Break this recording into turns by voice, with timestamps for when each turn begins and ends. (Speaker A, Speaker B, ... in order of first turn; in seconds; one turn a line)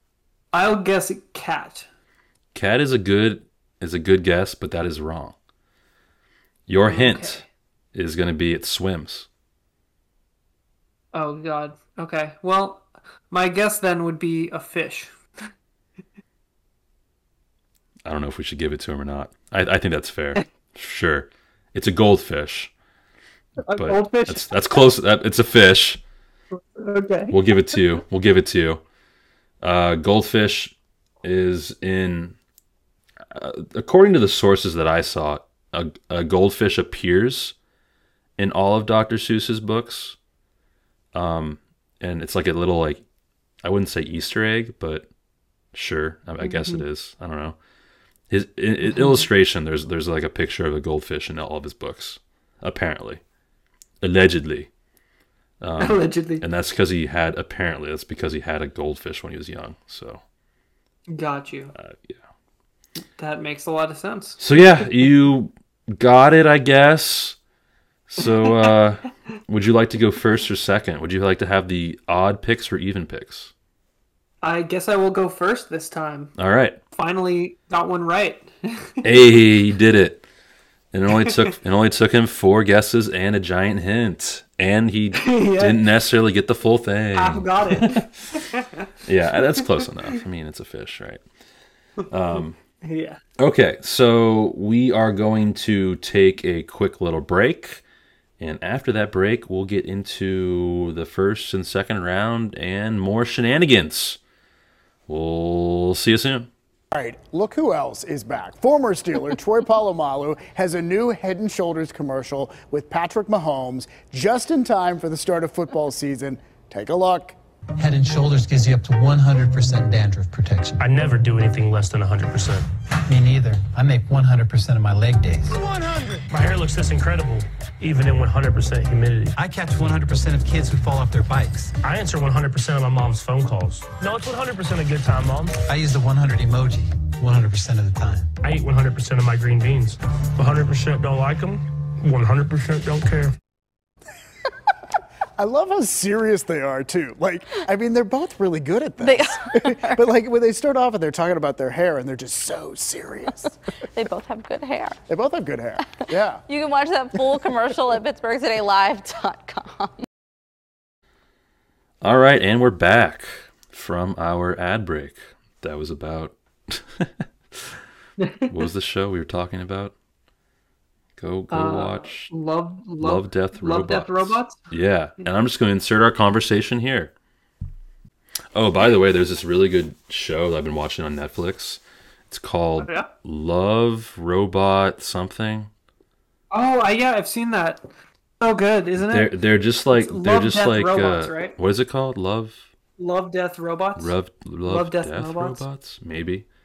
Speaker A: 0.5-1.9
Speaker B: 2.5-5.3
Speaker B: 6.7-9.3
Speaker A: 6.8-7.5
Speaker A: 11.1-15.1
Speaker B: 18.0-22.7
Speaker A: 23.7-24.8
Speaker B: 23.8-26.0
Speaker A: 26.5-27.4
Speaker B: 27.3-28.8
Speaker B: 29.6-32.4
Speaker B: 33.3-37.5
Speaker B: 38.4-40.2
Speaker B: 41.1-43.0
Speaker B: 43.6-45.1
Speaker B: 45.7-47.6
Speaker A: 46.4-46.8
Speaker B: 48.3-53.2
Speaker A: 48.8-49.3
Speaker B: 54.0-54.7
Speaker B: 55.6-60.2
Speaker A: 55.8-56.4
Speaker A: 61.1-61.7
Speaker B: 61.7-62.2
Speaker A: 63.1-64.4
Speaker B: 64.4-67.4
Speaker B: 68.1-73.5
Speaker A: 74.4-76.3
Speaker B: 76.4-76.8
Speaker A: 76.9-79.1
Speaker B: 79.0-80.2
Speaker B: 80.9-88.4
Speaker A: 81.2-81.5
Speaker A: 85.2-85.9
Speaker A: 87.2-88.9
Speaker B: 89.0-91.2
Speaker B: 92.1-92.6
Speaker A: 92.8-93.2
Speaker B: 93.4-97.8
Speaker B: 98.4-104.2
Speaker B: 105.1-106.5
Speaker C: 106.9-117.3
Speaker D: 117.8-121.0
Speaker E: 120.8-122.7
Speaker D: 123.1-126.5
Speaker E: 126.4-129.3
Speaker D: 129.3-131.8
Speaker E: 131.8-135.5
Speaker D: 135.6-138.4
Speaker E: 138.4-143.3
Speaker C: 145.4-153.6
Speaker F: 149.0-150.0
Speaker F: 153.9-155.0
Speaker C: 155.1-156.4
Speaker F: 156.5-159.9
Speaker B: 162.0-167.8
Speaker A: 168.2-168.5
Speaker B: 168.5-169.9
Speaker B: 171.2-172.3
Speaker A: 171.5-174.6
Speaker B: 173.0-177.1
Speaker B: 178.5-185.7
Speaker A: 182.8-183.1
Speaker A: 186.5-187.9
Speaker A: 188.4-189.3
Speaker B: 189.0-192.7
Speaker A: 189.9-191.6
Speaker A: 193.0-194.1
Speaker B: 194.0-196.4
Speaker A: 194.7-195.6